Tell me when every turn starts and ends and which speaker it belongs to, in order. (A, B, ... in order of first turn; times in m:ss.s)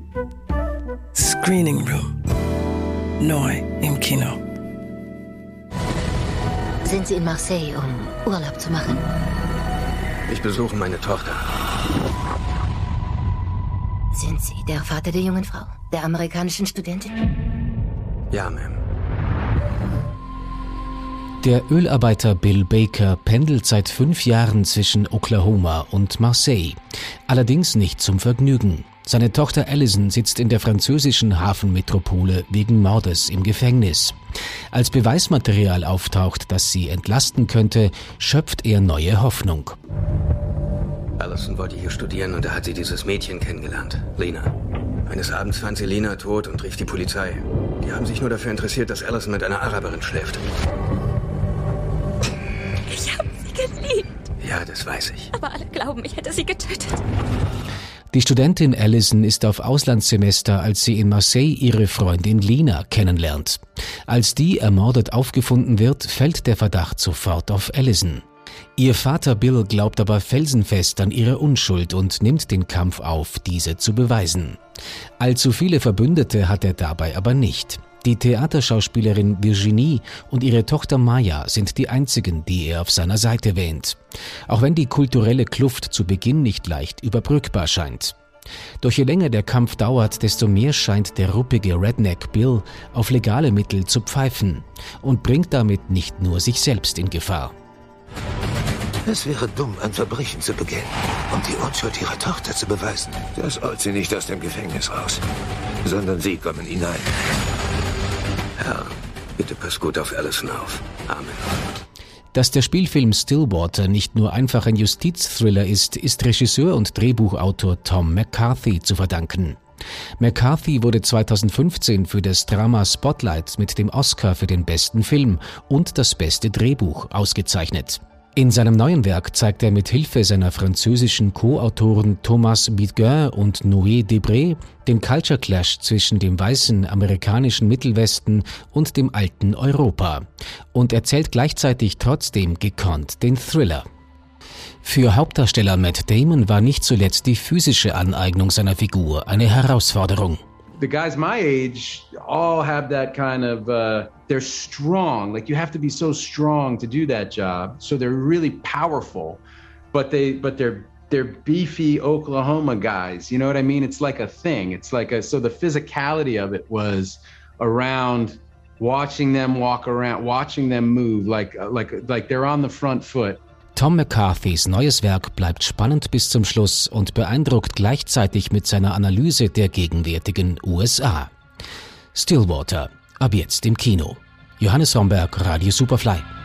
0:01.1-0:02.1 A
0:03.2-0:04.4 A
0:06.8-0:09.0 B
0:10.3-0:11.5 C
0:14.1-0:17.1 B
0:18.3-0:18.8 C
0:21.4-0:26.8 D
0:27.3-0:34.2 D
0:34.7-0:39.8 D
0:41.2-0:44.5 C
0:45.1-0:50.4 C
0:52.9-0:54.0 E
0:54.4-0:55.3 C
0:55.4-0:56.9 E
0:58.1-1:08.2 D
1:08.8-1:14.6 D
1:15.2-1:24.0 D
1:24.5-1:28.1 D
1:28.8-1:37.5 D
1:39.0-1:45.2 F
1:45.8-1:47.1 F
1:48.6-1:51.4 C
1:52.3-1:59.6 D
2:00.2-2:23.8 D
2:24.8-2:30.4 D
2:30.8-2:53.4 G
2:53.7-3:01.3 D
3:02.1-3:06.2 D